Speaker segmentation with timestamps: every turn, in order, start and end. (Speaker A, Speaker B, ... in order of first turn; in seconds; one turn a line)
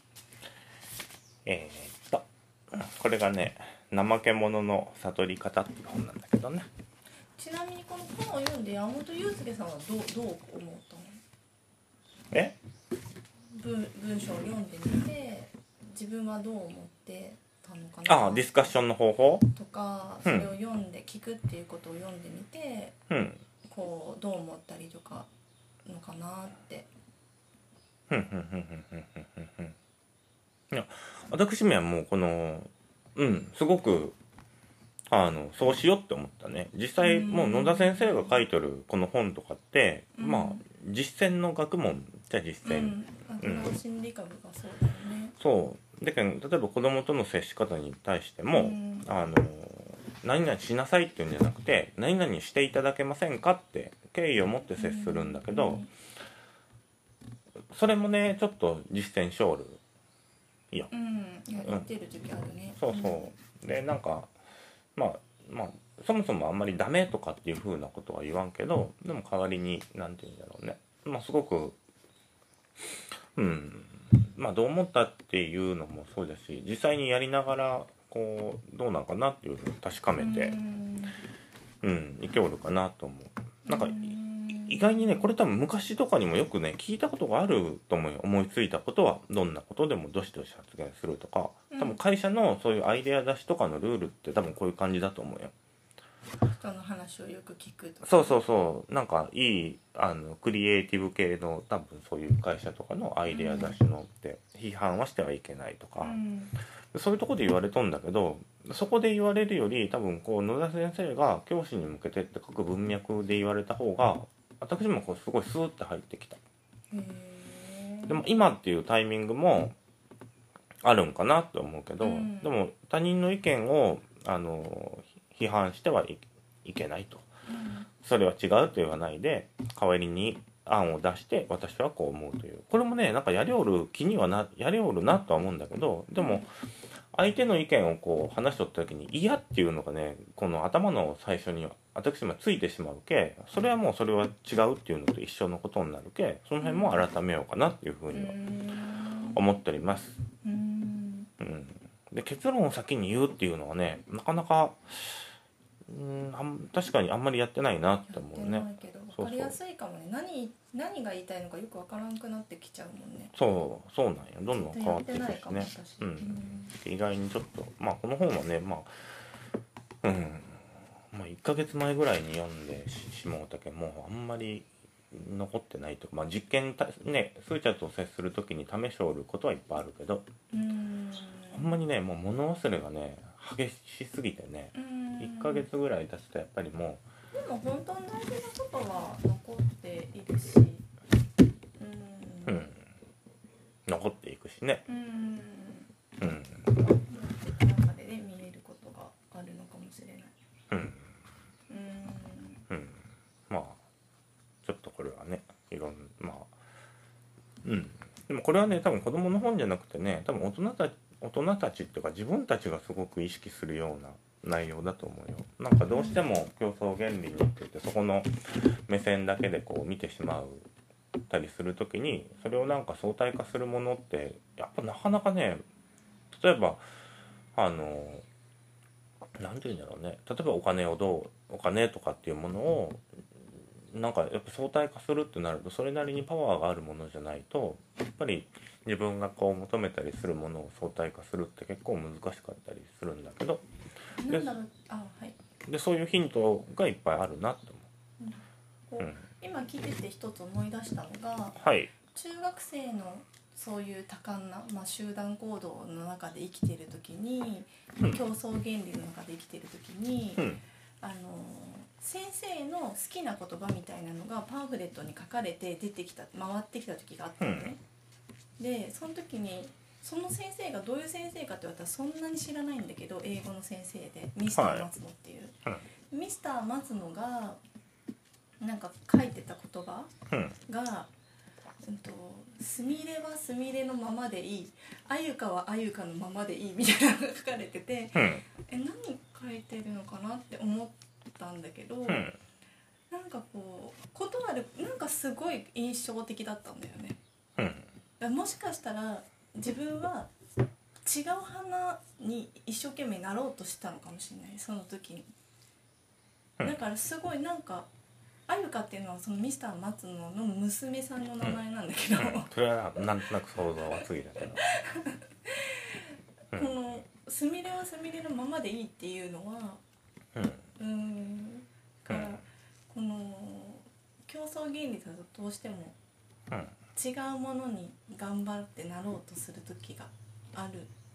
Speaker A: 1.4-6.7
Speaker B: 7.3-11.2
Speaker A: 12.3-12.6
Speaker B: 13.5-18.7
Speaker A: 18.1-19.5
Speaker B: 19.5-22.9
Speaker A: 20.2-20.5
Speaker A: 23.1-23.4
Speaker B: 23.6-25.3
Speaker B: 25.9-26.9
Speaker A: 28.1-29.7
Speaker A: 30.7-34.1
Speaker A: 35.1-43.7
Speaker B: 37.0-38.4
Speaker B: 40.1-40.6
Speaker B: 42.6-45.3
Speaker A: 45.4-55.9
Speaker B: 48.5-49.1
Speaker B: 54.8-55.9
Speaker A: 57.7-59.8
Speaker B: 60.9-63.3
Speaker A: 61.6-61.9
Speaker A: 62.8-64.3
Speaker A: 64.9-71.8
Speaker A: 73.3-80.5
Speaker B: 80.2-81.2
Speaker A: 81.8-84.1
Speaker B: 83.7-85.3
Speaker A: 84.7-95.5
Speaker B: 91.7-92.0
Speaker B: 96.5-98.4
Speaker A: 98.0-106.2
Speaker B: 103.3-103.8
Speaker B: 106.0-106.5
Speaker A: 106.9-116.4
Speaker B: 116.9-118.2
Speaker A: 118.1-119.7
Speaker A: 120.8-127.3
Speaker B: 122.0-122.5
Speaker B: 127.5-127.9
Speaker A: 128.0-136.5
Speaker B: 136.2-136.4
Speaker A: 137.1-148.3
Speaker B: 146.6-147.0
Speaker B: 148.1-149.4
Speaker A: 149.3-150.2
Speaker B: 150.4-151.3
Speaker A: 151.4-155.3
Speaker A: 155.9-159.6
Speaker B: 158.1-163.3
Speaker A: 163.3-168.9
Speaker B: 164.5-166.7
Speaker A: 170.0-180.3
Speaker B: 180.5-181.8
Speaker A: 181.5-187.0
Speaker B: 184.7-185.7
Speaker B: 187.3-190.8
Speaker B: 191.8-192.7
Speaker A: 192.4-192.8
Speaker A: 193.8-194.8
Speaker B: 194.9-195.9
Speaker A: 196.2-196.7
Speaker B: 196.6-200.3
Speaker A: 200.7-201.1
Speaker B: 201.7-202.7
Speaker A: 202.7-203.8
Speaker A: 204.6-206.5
Speaker A: 207.6-220.7
Speaker B: 215.9-216.2
Speaker A: 221.3-225.6
Speaker A: 226.3-226.8
Speaker A: 227.6-228.2
Speaker A: 229.4-233.0
Speaker A: 233.9-243.6
Speaker B: 244.2-245.4
Speaker A: 245.7-247.9
Speaker B: 248.2-267.8
Speaker A: 251.6-251.9
Speaker A: 260.4-260.6
Speaker A: 267.4-267.7
Speaker B: 268.6-275.6
Speaker A: 274.5-274.9
Speaker B: 276.1-277.6
Speaker B: 278.6-280.1
Speaker A: 280.3-280.6
Speaker B: 280.7-281.1
Speaker B: 281.8-292.3
Speaker A: 288.1-288.4
Speaker A: 292.1-292.4
Speaker B: 293.1-297.2
Speaker A: 297.6-297.9
Speaker B: 298.2-300.3
Speaker B: 301.0-305.3
Speaker B: 306.6-307.9
Speaker B: 308.5-312.5
Speaker A: 312.2-314.6
Speaker B: 314.6-319.8
Speaker A: 320.3-320.6
Speaker B: 320.8-325.9
Speaker A: 322.1-322.4
Speaker B: 326.9-330.9